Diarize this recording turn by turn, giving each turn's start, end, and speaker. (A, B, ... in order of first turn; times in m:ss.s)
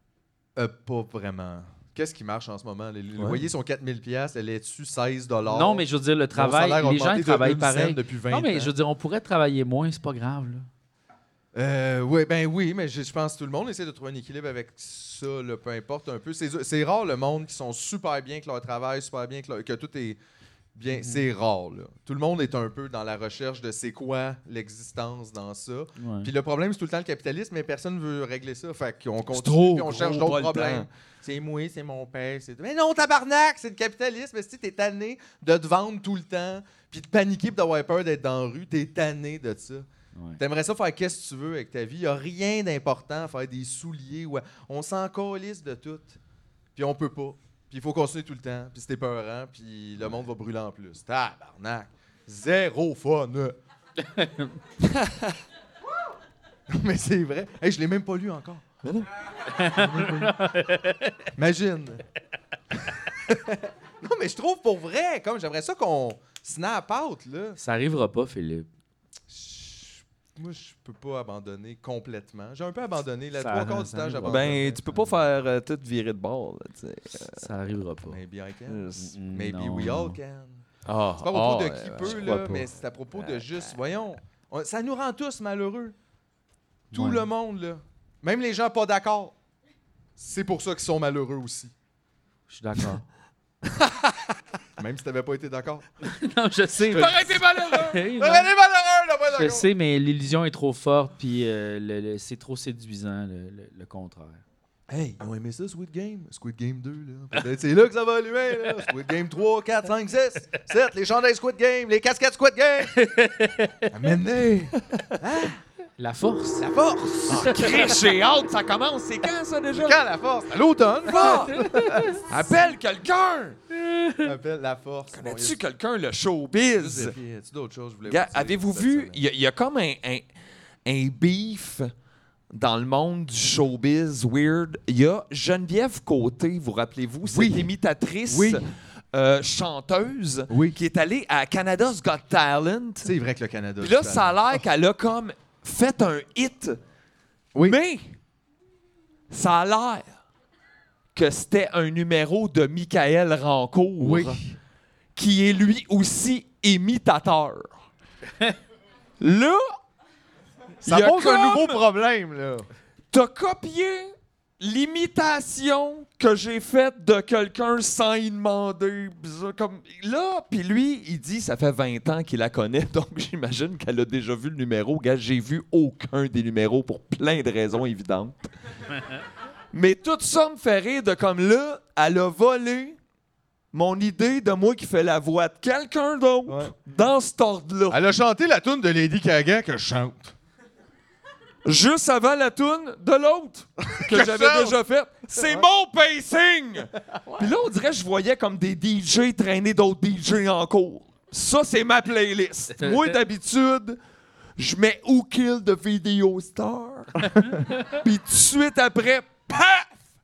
0:00.6-0:05.8 A
0:05.4-0:10.7 B
0:06.3-0:08.7 A
0:11.5-0:20.2 A
0:20.8-0:39.8 A
0:20.9-0:21.3 B
0:26.0-0:26.3 B
0:29.3-0:30.9 C
0:40.1-0:40.4 B
0:40.4-0:46.2 A
0:46.7-0:53.6 A
0:54.0-0:54.6 B
0:54.9-0:55.3 C
0:56.7-0:58.6 A
0:59.5-1:01.2 B
0:59.6-1:00.3 A
1:01.3-1:02.0 A
1:03.2-1:07.6 A
1:07.6-1:08.7 B
1:09.3-1:14.8 A
1:13.3-1:15.0 B
1:14.3-1:17.5 C
1:17.4-1:18.2 B
1:18.1-1:20.6 A
1:18.7-1:19.1 C
1:19.0-1:20.2 B
1:20.8-1:22.2 C
1:21.2-1:25.9 A
1:22.1-1:22.7 B
1:26.9-1:29.3 A
1:26.9-1:27.2 B
1:30.2-1:31.7 A
1:32.5-1:33.0 B
1:34.8-1:35.9 A
1:36.0-1:38.5 B
1:36.8-1:39.7 A
1:37.0-1:38.0 C
1:39.3-1:44.4 B
1:44.9-1:53.0 A
1:52.9-1:53.9 B
1:53.9-1:55.6 A
1:56.0-1:56.6 B
1:56.6-1:58.0 A
1:57.3-2:00.0 C
1:59.7-2:02.6 A
2:01.1-2:01.6 C
2:01.2-2:02.2 B
2:02.3-2:03.6 C
2:03.7-2:04.3 B
2:04.2-2:05.6 A
2:05.1-2:07.2 C
2:06.8-2:09.2 A
2:08.1-2:10.2 C
2:10.8-2:11.9 C
2:12.5-2:23.1 C
2:17.2-2:17.7 A
2:18.3-2:18.6 A
2:20.5-2:20.8 A
2:23.0-2:24.6 A
2:23.8-2:26.8 C
2:27.6-2:28.2 C
2:29.3-2:30.2 C
2:31.1-2:34.4 C
2:34.0-2:34.6 A
2:35.2-2:37.7 C
2:39.2-2:39.6 C
2:40.8-2:42.7 A
2:40.8-2:41.8 C
2:43.1-2:58.5 C
2:59.7-3:03.0 C
3:03.7-3:08.0 C
3:06.5-3:06.7 A
3:07.9-3:10.3 A
3:11.6-3:24.0 C
3:13.9-3:14.8 A
3:22.8-3:23.2 B
3:24.6-3:27.3 C
3:27.5-3:27.8 B
3:27.8-3:30.0 C